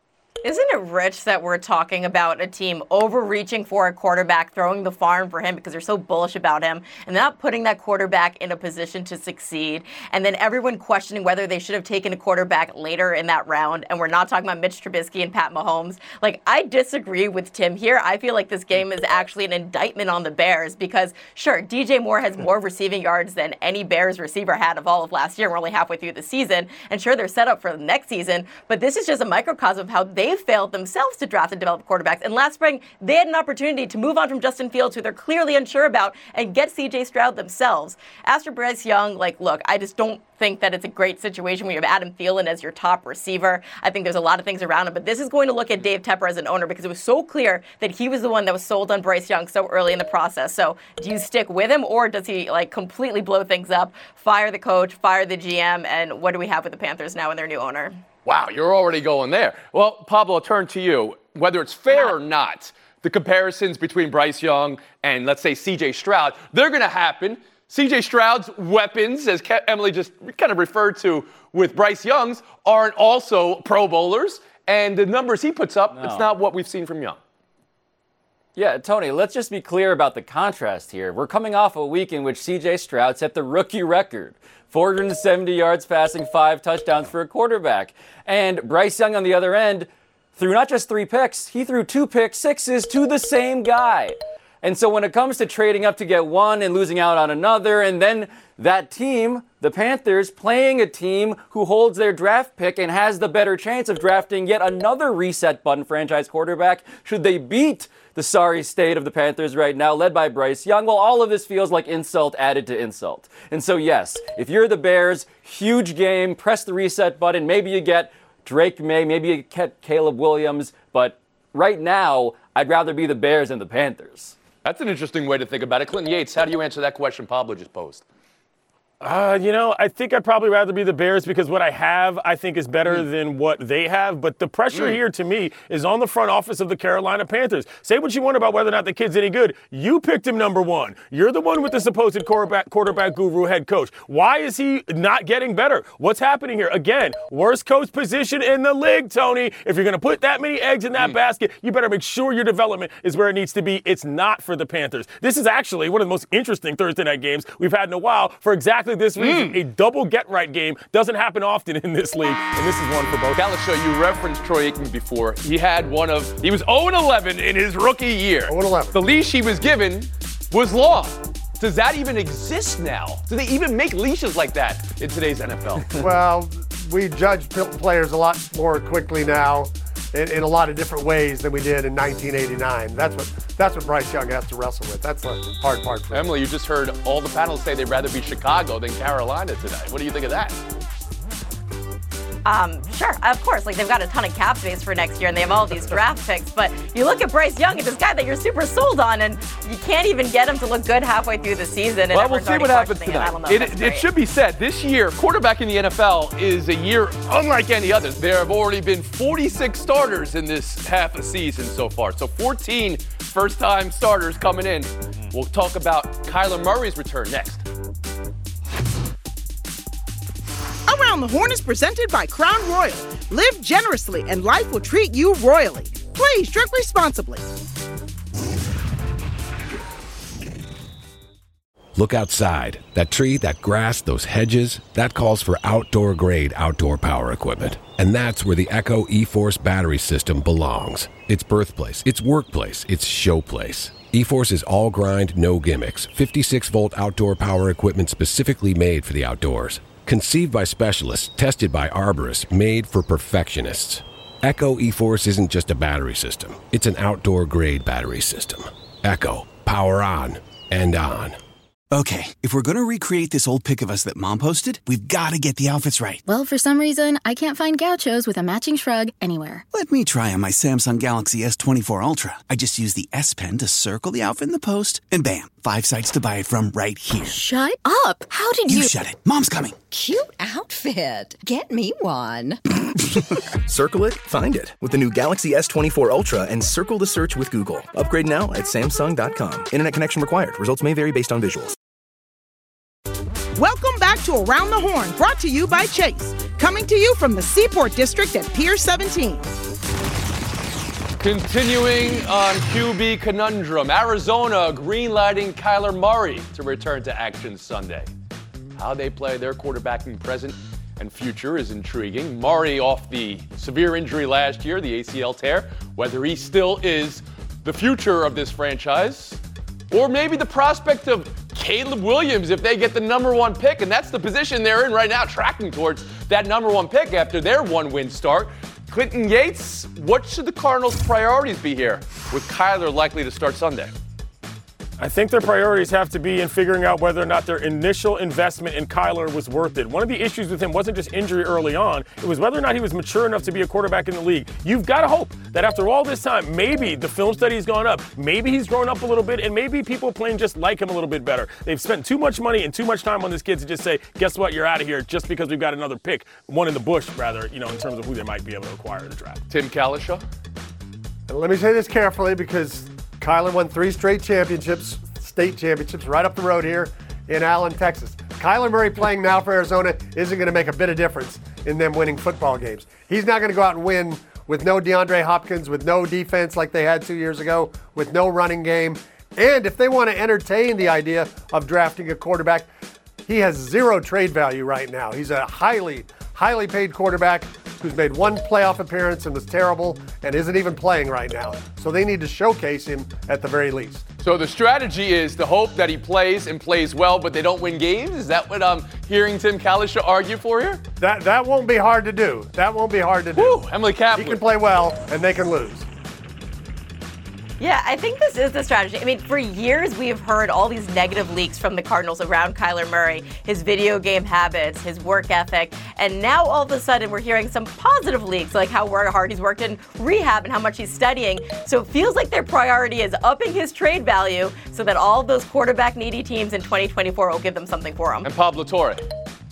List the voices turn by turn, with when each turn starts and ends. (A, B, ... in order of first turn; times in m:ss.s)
0:00.4-0:58.0 A
0:58.2-1:17.2 B
1:15.9-1:16.3 C
1:18.6-2:04.4 C
2:04.6-2:08.0 B
2:09.0-2:43.4 D
2:39.2-2:39.6 B
2:43.3-2:56.0 B
2:48.5-2:49.0 E
2:56.0-3:06.3 E
3:06.1-3:10.6 B
3:12.4-3:24.1 A
3:22.1-3:37.6 B
3:40.9-3:47.5 F
3:52.0-4:21.4 G
4:21.9-4:26.2 H
4:26.2-4:29.6 I
4:29.7-4:37.4 H
4:37.3-4:38.9 I
4:38.6-4:39.8 H
4:39.9-4:42.6 J
4:43.6-4:51.7 K
4:53.6-4:59.5 F
5:01.2-5:08.1 B
5:08.8-5:19.4 B
5:19.9-5:33.9 B
5:35.0-5:59.4 D
5:59.5-6:00.2 B
6:01.3-6:22.7 E
6:23.2-6:34.0 E
6:34.2-6:40.8 B
6:41.0-6:45.9 E
6:43.4-6:44.4 B
6:47.6-7:08.3 A
7:08.2-7:09.0 B